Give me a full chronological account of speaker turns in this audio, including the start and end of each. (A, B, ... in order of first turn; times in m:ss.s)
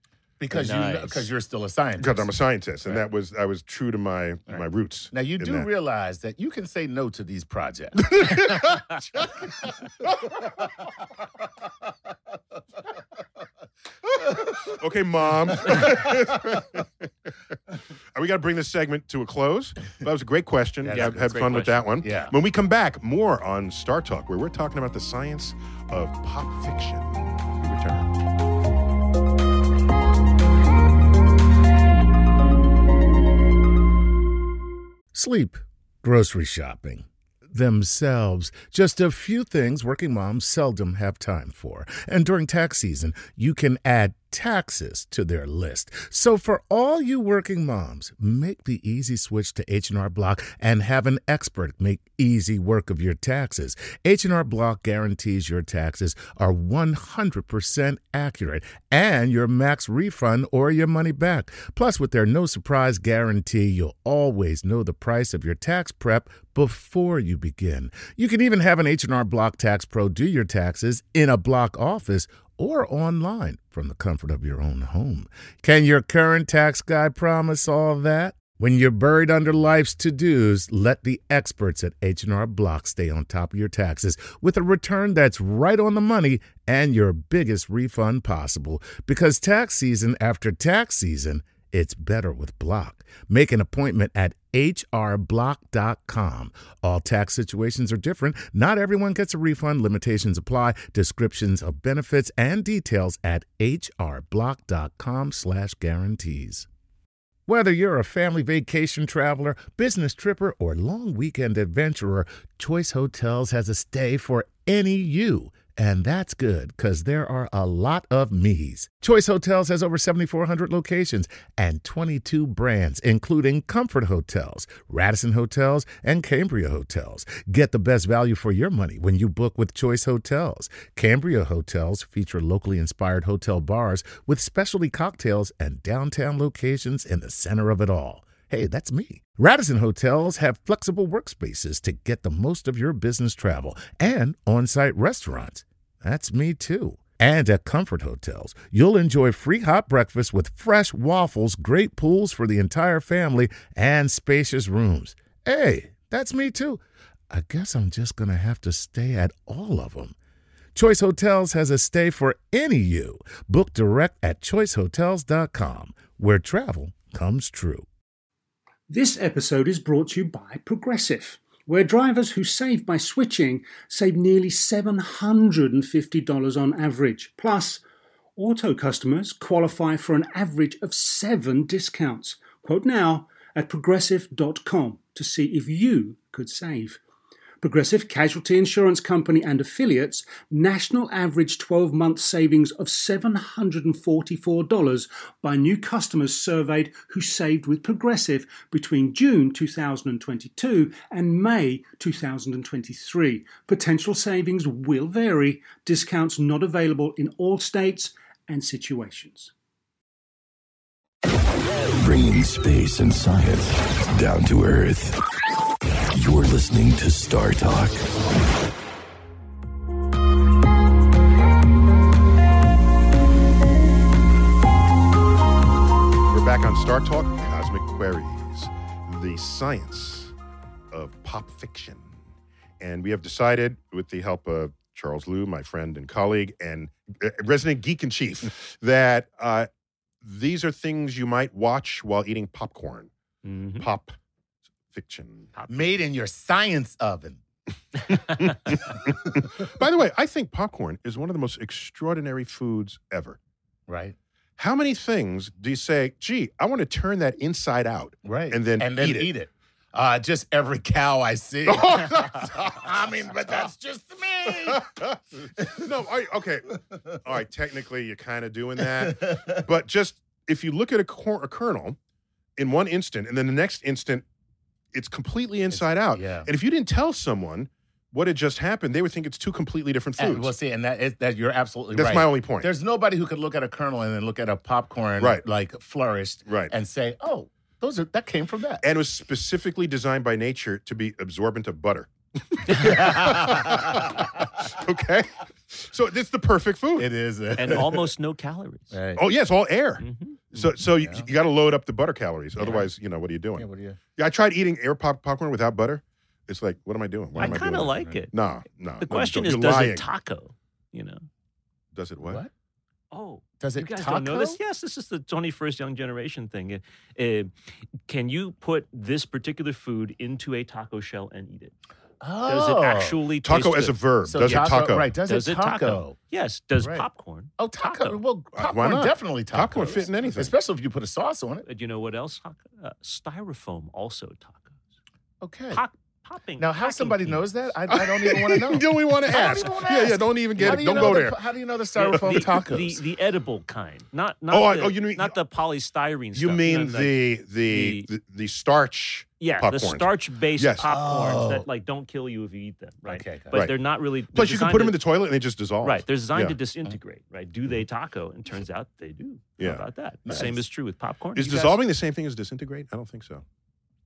0:00.4-0:02.3 A
0:00.5-0:01.3 B
0:02.0-0:05.7 C
0:05.1-0:08.5 A
0:08.0-0:09.3 C
0:14.2-0:17.1 C
0:15.7-0:16.1 A
0:18.1-0:28.1 C
0:20.8-0:22.4 A
0:20.8-0:22.0 B
0:35.1-1:46.7 A
1:47.5-2:40.2 A
2:40.8-2:47.9 A
2:48.9-2:57.8 D
2:58.4-3:07.0 D
3:07.6-3:29.5 D
3:31.8-3:35.3 E
3:36.1-3:38.1 E
3:46.3-3:50.3 C
3:50.9-3:52.1 C
3:52.8-3:59.7 C
4:00.2-4:03.1 C
4:03.4-4:03.9 B
4:03.8-4:04.2 C
4:04.9-4:05.5 C
4:05.5-4:05.8 B
4:05.7-4:07.4 A
4:08.3-4:13.4 C
4:13.9-4:14.2 A
4:14.6-4:19.3 C
4:18.2-4:24.9 A
4:21.7-4:22.9 C
4:24.5-4:32.0 C
4:25.6-4:26.0 A
4:26.9-4:27.2 A
4:28.8-4:29.6 A
4:32.6-4:34.2 C
4:34.9-4:40.5 C
4:35.7-4:36.5 A
4:40.2-4:48.8 A
4:41.9-4:42.7 C
4:46.5-4:46.7 C
4:48.8-4:57.1 C
4:52.7-4:53.0 B
4:52.7-4:54.3 A
4:57.0-4:58.1 A
4:57.6-4:59.0 B
4:58.9-4:59.2 A
4:59.2-5:10.0 C
5:00.0-5:00.4 B
5:00.8-5:01.3 A
5:02.6-5:02.9 B
5:03.6-5:04.0 A
5:07.4-5:08.3 B
5:09.0-5:11.2 B
5:12.0-5:12.4 C
5:13.1-5:17.5 B
5:13.6-5:14.6 A
5:18.1-5:21.7 B
5:22.2-5:23.2 A
5:22.5-5:24.0 B
5:23.4-5:25.1 C
5:24.2-5:26.2 A
5:25.3-5:28.2 B
5:26.8-5:27.0 A
5:27.6-5:31.7 A
5:28.5-5:30.5 C
5:31.7-5:34.8 B
5:35.4-5:35.8 A
5:35.7-5:37.4 B
5:36.6-5:43.0 A
5:37.9-5:41.4 C
5:39.3-5:39.6 B
5:40.6-5:41.2 B
5:42.0-5:48.1 B
5:42.1-5:42.4 C
5:44.5-5:45.4 C
5:46.3-5:50.9 C
5:49.4-5:55.0 B
5:50.9-5:51.7 A
5:53.1-5:53.6 A
5:54.3-5:56.6 C
5:55.8-6:01.8 B
5:59.6-5:59.8 C
6:00.3-6:00.6 A
6:01.4-6:03.4 C